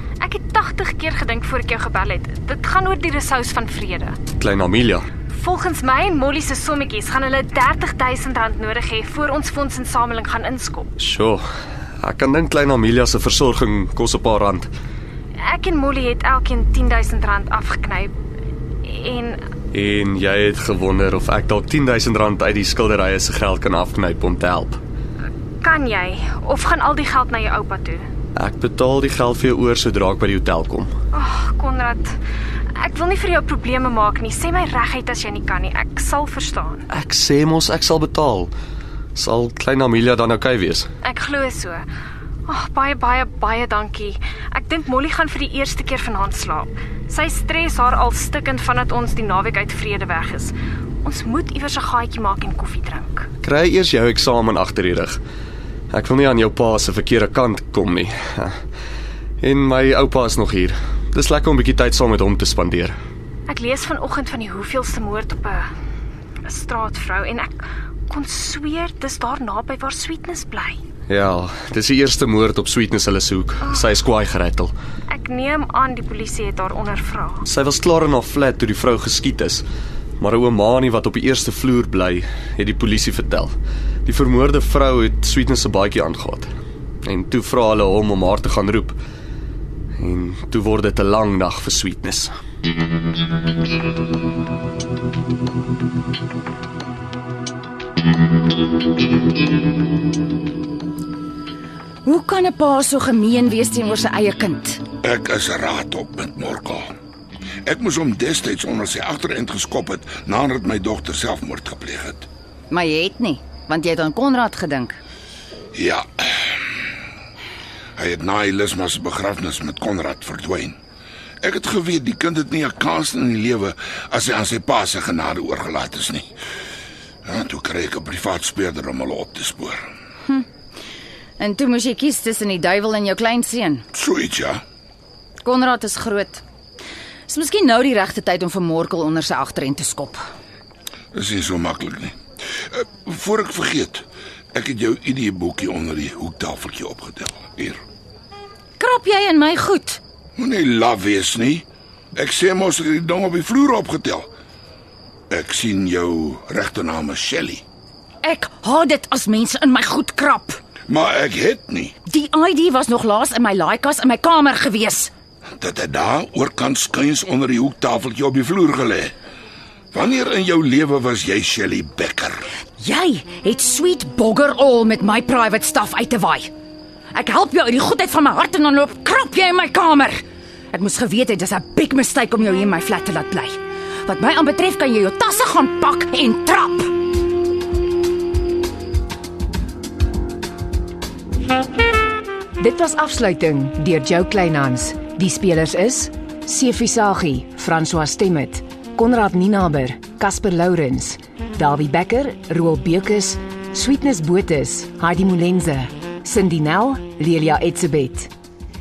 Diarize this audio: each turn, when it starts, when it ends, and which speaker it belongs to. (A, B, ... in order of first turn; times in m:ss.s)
0:00.2-0:04.2 A
0:04.3-0:05.1 B
0:05.3-0:10.9 A
0:11.0-0:11.5 B
0:12.0-0:14.7 B
0:15.5-0:18.1 A
0:18.8-0:19.4 A
0:19.7-0:24.8 B
0:25.6-0:28.1 A
0:28.4-0:31.0 B
0:31.1-0:32.1 A
0:32.8-0:36.9 A
0:36.9-0:38.5 B
0:39.2-0:40.9 B
0:41.0-0:41.9 A
0:42.5-0:53.3 A
0:53.4-0:55.2 B
0:55.9-0:58.6 B
0:59.4-1:03.0 B
1:03.5-1:05.7 A
1:06.5-1:10.8 A
1:11.1-1:14.7 B
1:13.6-1:14.0 A
1:15.1-1:17.4 A
1:17.5-1:19.7 B
1:20.2-1:29.0 B
1:30.0-1:32.4 B
1:42.0-1:44.8 C
1:45.0-1:46.9 D
1:47.6-1:52.3 D
1:52.7-1:55.0 C
1:55.8-1:56.6 D
1:58.0-2:00.8 D
2:01.4-2:06.3 D
2:07.3-2:09.9 D
2:11.4-2:13.8 C
2:13.9-2:14.6 D
2:15.4-2:16.4 C
2:17.3-2:20.2 C
2:21.1-2:22.2 D
2:22.7-2:27.8 D
2:28.8-2:30.0 C
2:30.4-2:34.3 D
2:35.3-2:37.6 D
2:38.2-2:40.6 C
2:40.9-2:42.0 D
2:42.1-2:45.1 C
2:45.6-2:49.1 D
2:49.9-2:52.5 D
2:52.8-2:56.5 C
2:57.1-3:00.2 C
3:00.7-3:06.9 C
3:12.6-3:28.3 E